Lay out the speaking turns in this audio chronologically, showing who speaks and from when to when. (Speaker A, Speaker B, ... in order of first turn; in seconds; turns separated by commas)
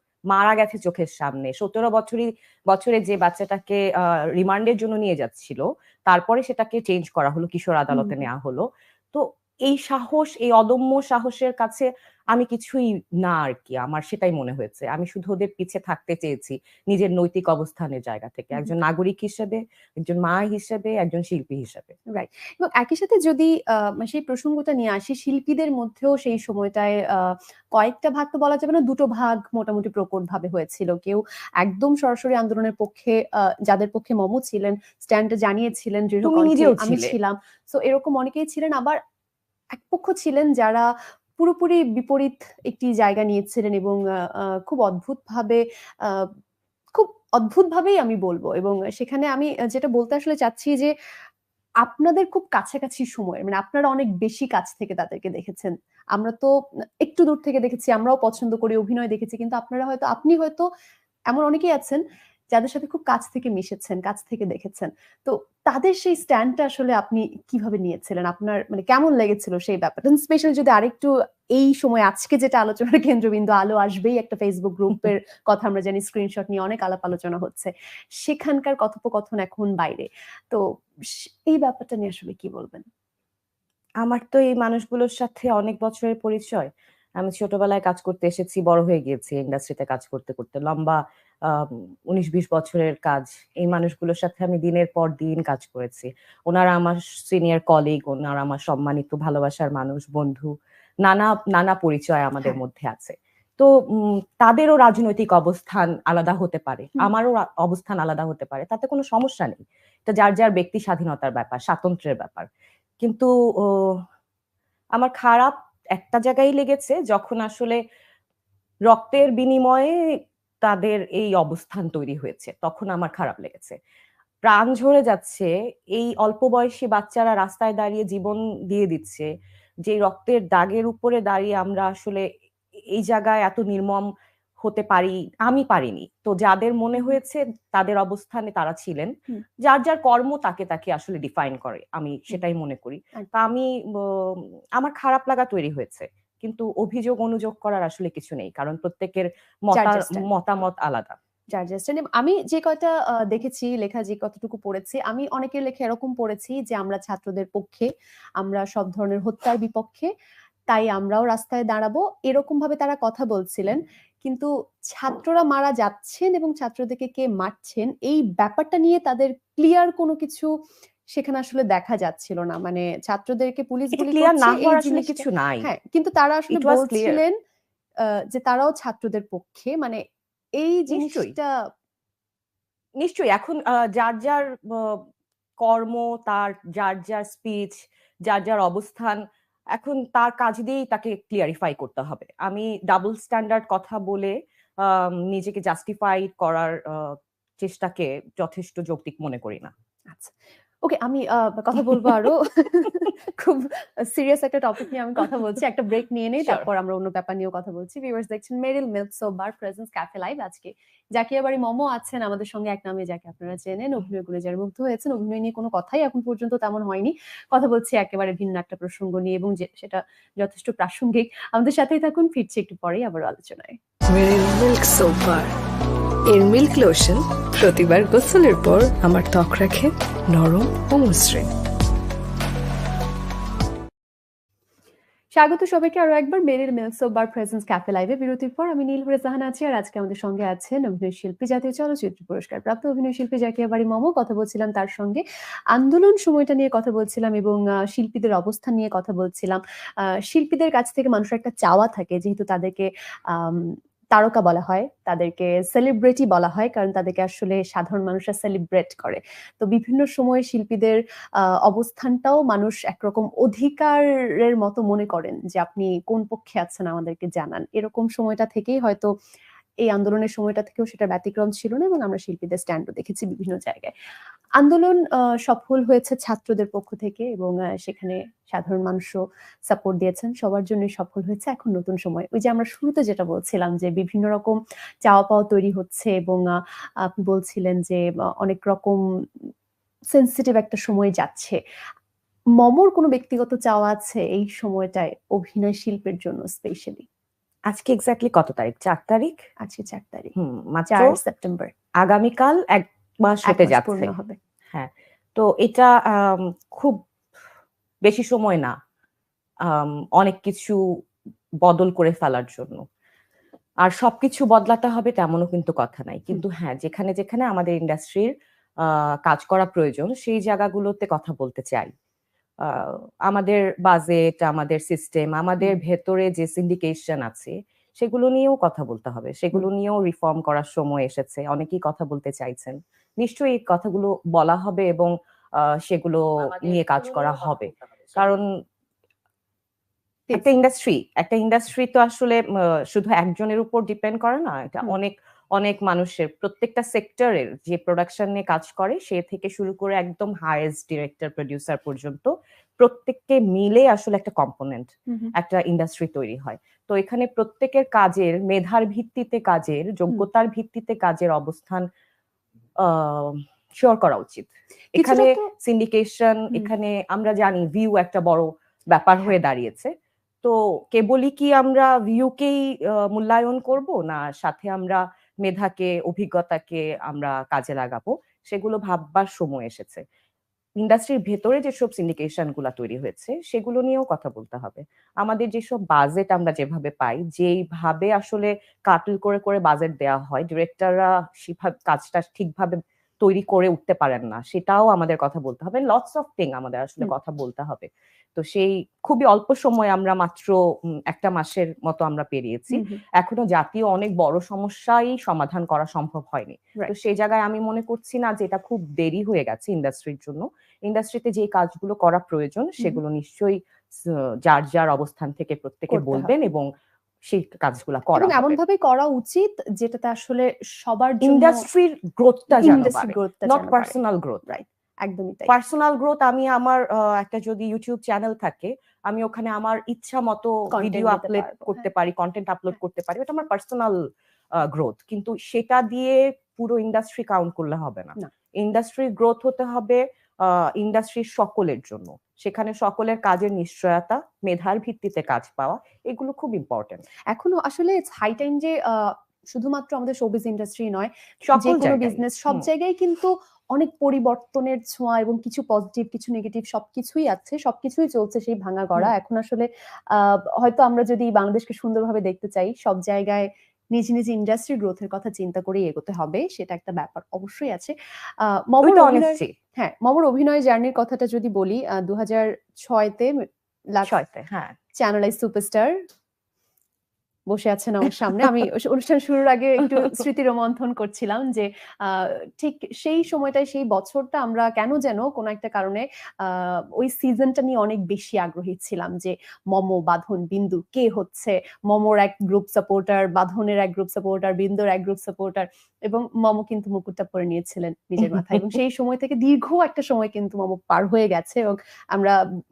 Speaker A: 0.3-21.9, Speaker B: 7.9-8.2, Speaker B: 22.1-39.0, Speaker A: 36.2-37.1, Speaker B: 39.7-40.9, Speaker B: 41.4-46.3, Speaker B: 46.9-50.9, Speaker B: 51.8-56.5, Speaker B: 57.0-60.6, Speaker B: 61.3-62.0, Speaker B: 62.5-77.7, Speaker B: 78.2-80.6, Speaker B: 81.5-82.8, Speaker A: 84.0-100.5, Speaker A: 101.0-112.5, Speaker A: 113.0-114.0, Speaker A: 115.0-117.8, Speaker A: 118.9-119.9, Speaker A: 120.6-123.8, Speaker A: 124.5-129.3, Speaker A: 129.8-132.2, Speaker A: 132.9-134.1, Speaker A: 134.6-139.1, Speaker A: 139.6-151.2, Speaker B: 149.7-150.3, Speaker B: 151.5-157.9, Speaker B: 158.4-160.1, Speaker B: 160.7-170.5, Speaker B: 171.1-177.3, Speaker A: 173.9-175.7, Speaker A: 176.5-177.2, Speaker B: 178.0-180.0, Speaker B: 180.6-181.5, Speaker A: 180.9-181.3, Speaker A: 183.0-185.1, Speaker A: 185.6-189.2, Speaker A: 189.7-199.7, Speaker B: 200.1-223.8, Speaker C: 224.1-225.5, Speaker C: 226.3-231.5, Speaker B: 235.3-245.2, Speaker B: 245.7-249.6, Speaker B: 250.3-269.1, Speaker B: 269.8-273.9, Speaker B: 274.6-289.5, Speaker B: 290.1-291.6, Speaker B: 292.6-297.1, Speaker A: 297.7-299.4, Speaker B: 299.6-300.3, Speaker A: 300.4-301.2, Speaker B: 300.9-301.7, Speaker A: 302.0-304.1, Speaker B: 303.5-304.4, Speaker A: 304.7-307.0, Speaker A: 308.0-308.8, Speaker A: 309.6-310.8, Speaker A: 311.6-312.8, Speaker A: 313.8-318.3, Speaker A: 318.8-321.9, Speaker A: 322.6-338.4, Speaker A: 340.3-361.9, Speaker A: 362.8-380.0, Speaker B: 364.9-365.5, Speaker A: 380.8-400.6, Speaker A: 401.1-416.6, Speaker B: 402.7-403.0, Speaker B: 415.9-416.3, Speaker A: 417.3-418.6, Speaker B: 418.1-421.6, Speaker A: 421.2-424.4, Speaker B: 422.5-423.9, Speaker B: 424.5-425.5, Speaker A: 425.5-434.0, Speaker B: 430.7-431.9, Speaker A: 434.6-447.0, Speaker B: 447.3-474.1, Speaker A: 451.5-452.7, Speaker A: 468.8-469.5, Speaker A: 474.0-474.7, Speaker B: 475.0-475.9, Speaker B: 477.5-502.4